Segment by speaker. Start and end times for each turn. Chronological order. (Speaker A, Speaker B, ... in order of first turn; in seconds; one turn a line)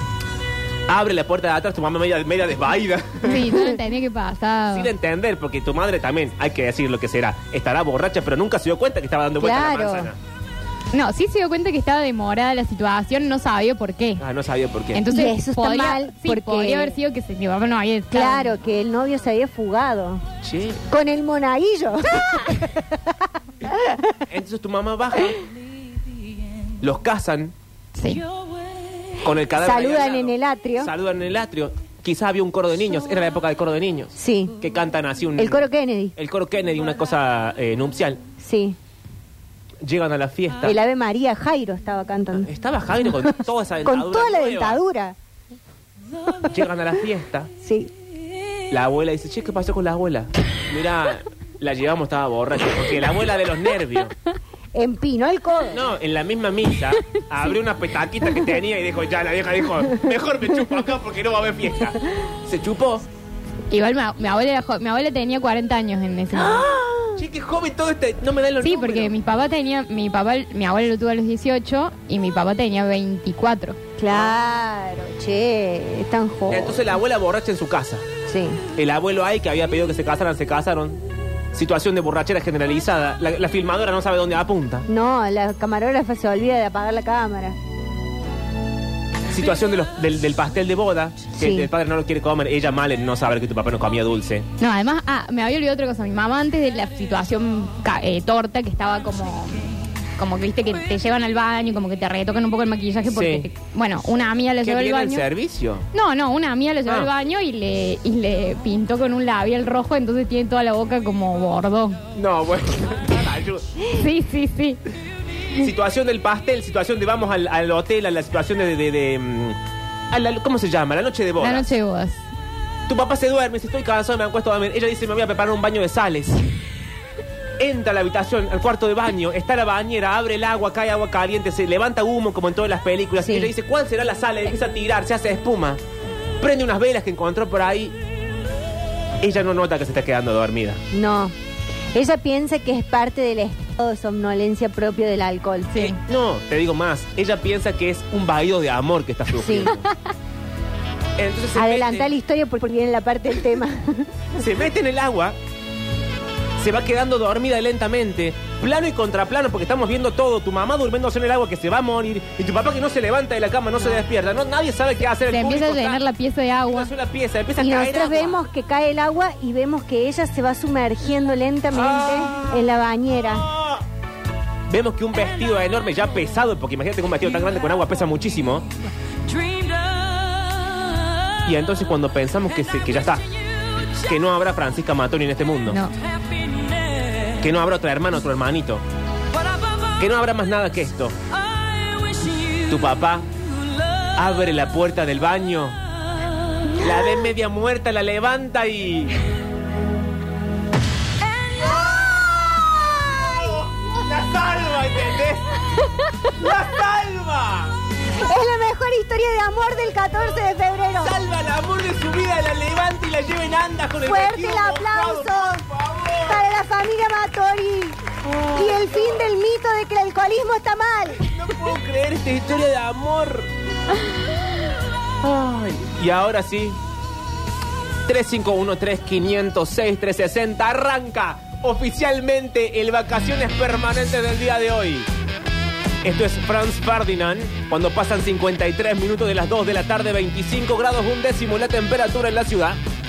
Speaker A: 0.9-3.5
Speaker B: 3.2-4.9
Speaker A: 4.7-10.2
Speaker C: 9.4-10.1
Speaker B: 10.9-14.2
Speaker A: 14.2-15.1
Speaker B: 14.9-18.5
Speaker C: 15.1-16.9
Speaker C: 18.1-20.2
Speaker A: 20.4-20.8
Speaker C: 20.9-23.1
Speaker C: 23.6-24.1
Speaker A: 24.3-25.4
Speaker A: 26.8-27.5
Speaker B: 27.9-28.2
Speaker A: 29.2-38.2
Speaker C: 29.6-30.9
Speaker C: 34.1-34.5
Speaker C: 35.4-36.1
Speaker C: 38.4-38.8
Speaker A: 39.8-40.8
Speaker C: 40.6-42.5
Speaker A: 42.3-44.8
Speaker C: 43.8-45.1
Speaker A: 46.5-47.5
Speaker C: 47.6-47.9
Speaker A: 48.7-54.1
Speaker C: 54.7-55.8
Speaker A: 55.7-63.0
Speaker B: 63.7-66.6
Speaker A: 66.4-69.1
Speaker B: 68.6-73.8
Speaker C: 74.0-76.8
Speaker A: 74.1-74.3
Speaker A: 76.5-78.0
Speaker C: 78.3-78.6
Speaker A: 78.8-81.0
Speaker A: 81.5-84.8
Speaker C: 84.9-87.5
Speaker A: 89.3-94.5
Speaker C: 91.3-91.7
Speaker B: 94.6-105.2
Speaker A: 103.1-103.5
Speaker A: 104.6-105.9
Speaker B: 105.9-112.0
Speaker A: 112.2-113.8
Speaker B: 113.9-114.8
Speaker A: 115.5-119.6
Speaker A: 120.1-121.7
Speaker B: 121.4-122.2
Speaker A: 122.9-126.4
Speaker A: 127.6-135.8
Speaker C: 133.2-133.5
Speaker A: 136.4-137.9
Speaker A: 139.2-140.8
Speaker C: 140.9-141.3
Speaker C: 141.9-145.7
Speaker B: 145.7-146.0
Speaker A: 145.8-149.8
Speaker C: 149.4-149.7
Speaker A: 151.2-152.1
Speaker C: 151.6-154.1
Speaker A: 154.3-155.3
Speaker A: 156.6-166.0
Speaker B: 165.3-166.9
Speaker A: 166.7-168.4
Speaker C: 167.6-173.4
Speaker A: 171.7-172.6
Speaker A: 173.5-173.8
Speaker A: 174.7-178.7
Speaker A: 181.4-183.2
Speaker A: 184.0-185.8
Speaker B: 185.7-185.9
Speaker A: 187.4-188.8
Speaker A: 190.0-191.2
Speaker A: 192.7-193.2
Speaker A: 194.2-195.8
Speaker A: 196.8-199.2
Speaker A: 201.6-205.6
Speaker A: 206.3-207.8
Speaker C: 208.2-211.2
Speaker A: 211.0-216.4
Speaker C: 214.1-215.6
Speaker C: 216.2-218.0
Speaker A: 218.2-219.1
Speaker C: 218.5-221.3
Speaker A: 221.2-223.5
Speaker A: 225.2-226.8
Speaker A: 228.1-235.1
Speaker A: 236.0-242.8